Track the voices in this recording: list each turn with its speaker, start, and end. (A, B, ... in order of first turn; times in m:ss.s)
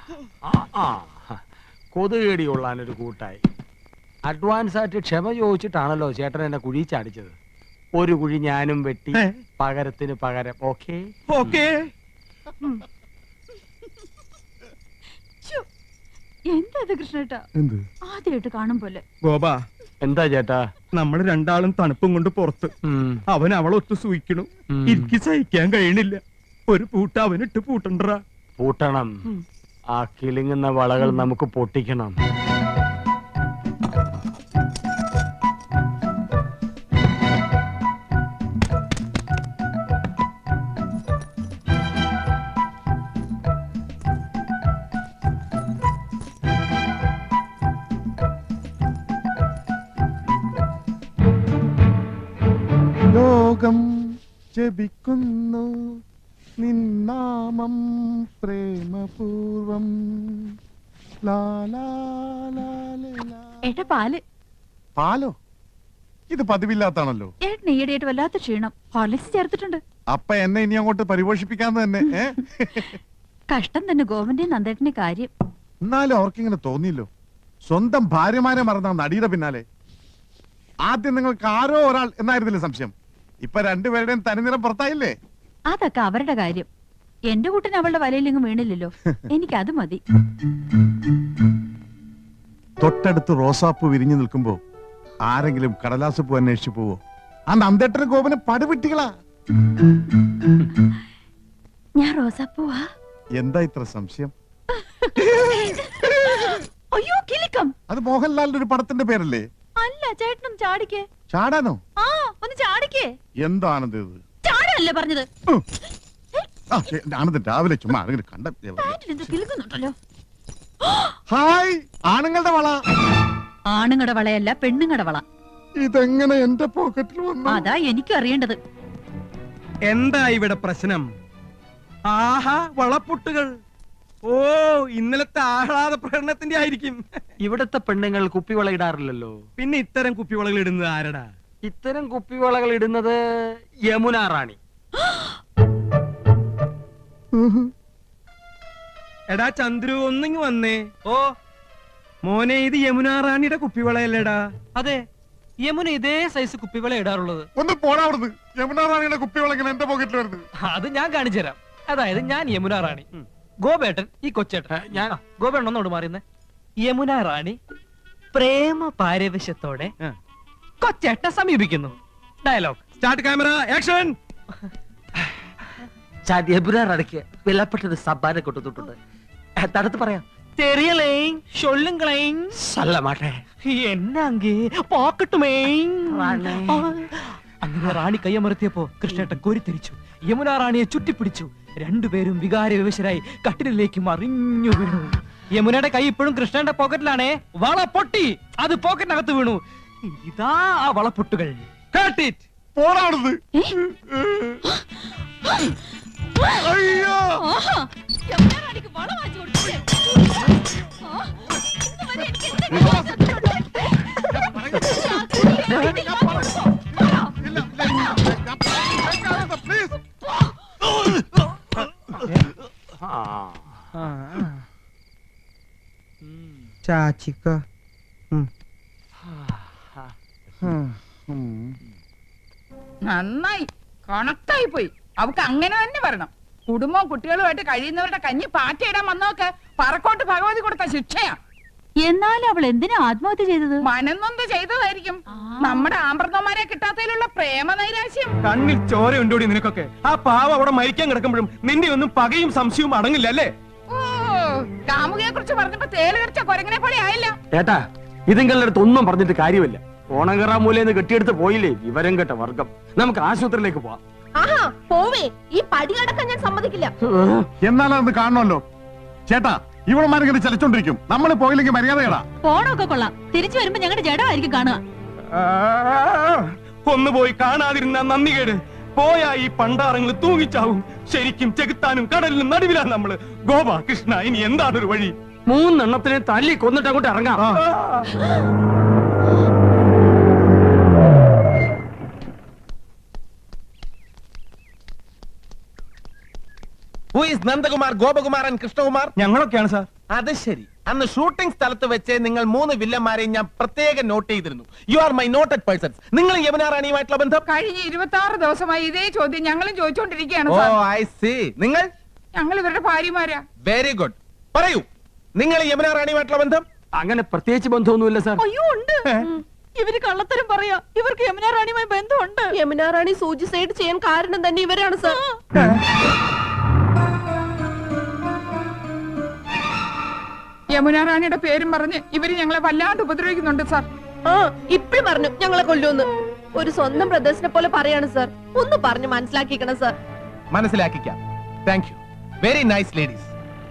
0:00.5-0:01.4 A
0:01.9-0:03.4 A
0:04.2-0:07.3 A
0:07.9-0:11.6 A
0:11.3-0:11.8 B
0:16.5-0:17.4 C
0:18.1-0:19.0 C
0:19.2-0:19.6 B
0:20.0-0:20.7 A
0:20.9-0:22.7 B
0:22.9-0:23.2 A
0:23.3-0:28.2 B
0:24.7-0:25.1 A
0:28.6-0:29.3 A
0:30.0-0:32.2 A
0:53.1-0:53.8 D
0:54.6-0:55.7 D
0:56.6-1:00.6 D
1:01.2-1:03.4 D
1:03.7-1:04.2 C
1:05.0-1:05.3 D
1:06.3-1:07.3 D
1:07.4-1:09.8 C
1:10.1-1:12.9 D
1:13.5-1:15.3 C
1:15.8-1:17.1 D
1:17.7-1:19.6 D
1:20.9-1:25.2 D
1:25.7-1:26.7 C
1:27.3-1:30.0 C
1:32.8-1:34.6 D
1:35.3-1:39.1 D
1:42.0-1:42.8 C
1:43.4-1:44.3 D
1:45.0-1:47.7 C
1:47.9-1:49.4 D
1:49.8-1:51.1 C
1:51.3-1:51.8 D
1:52.0-1:53.1 C
1:53.4-1:54.2 D
1:54.4-1:55.3 C
1:56.7-1:59.0 D
1:58.8-2:00.0 C
2:01.3-2:02.8 D
2:03.7-2:05.2 C
2:05.8-2:07.6 D
2:07.5-2:08.6 C
2:09.9-2:11.1 B
2:12.1-2:13.5 B
2:14.3-2:17.0 B
2:17.4-2:19.4 A
2:19.6-2:21.3 B
2:21.6-2:24.6 A
2:29.3-2:30.9 B
2:31.1-2:31.4 E
2:32.2-2:34.4 B
2:34.8-2:35.1 E
2:35.6-2:37.5 E
2:37.6-2:40.4 D
2:40.6-2:43.1 E
2:43.6-2:46.2 E
2:44.7-2:45.2 A
2:46.8-2:47.6 E
2:48.3-2:49.9 E
2:50.8-2:52.8 E
2:53.0-2:54.2 B
2:56.2-2:59.0 A
2:59.6-3:00.2 A
3:00.6-3:02.6 E
3:02.6-3:03.4 A
3:03.6-3:07.0 E
3:06.1-3:06.9 A
3:07.6-3:19.6 E
3:20.2-3:22.4 E
3:22.8-3:23.4 D
3:23.9-3:24.6 D
3:26.6-3:27.4 D
3:27.4-3:27.8 C
3:28.3-3:29.7 C
3:32.3-3:33.2 C
3:32.6-3:33.2 D
3:34.2-3:40.0 D
3:35.0-3:36.1 C
3:43.0-3:43.8 A
3:46.9-3:47.5 B
3:49.3-3:50.1 A
3:50.6-3:51.8 D
3:53.1-4:01.4 F
4:02.0-4:03.9 C
4:03.8-4:08.4 F
4:05.3-4:05.9 C
4:08.4-4:13.5 B
4:13.9-4:17.4 F
4:17.5-4:24.0 A
4:24.4-4:26.9 G
4:27.1-4:27.5 A
4:27.6-4:28.6 D
4:29.3-4:32.2 D
4:32.4-4:34.8 C
4:35.3-4:45.1 B
4:45.5-4:47.6 A
4:57.1-4:59.2 H
4:59.2-4:59.9 B
5:00.1-5:07.4 H
5:07.5-5:10.8 F
5:10.5-5:11.9 H
5:12.4-5:13.4 F
5:13.7-5:16.6 H
5:17.0-5:18.4 A
5:19.8-5:22.4 C
5:22.6-5:25.2 G
5:30.7-5:33.9 F
5:34.3-5:39.9 G
5:40.5-5:43.3 H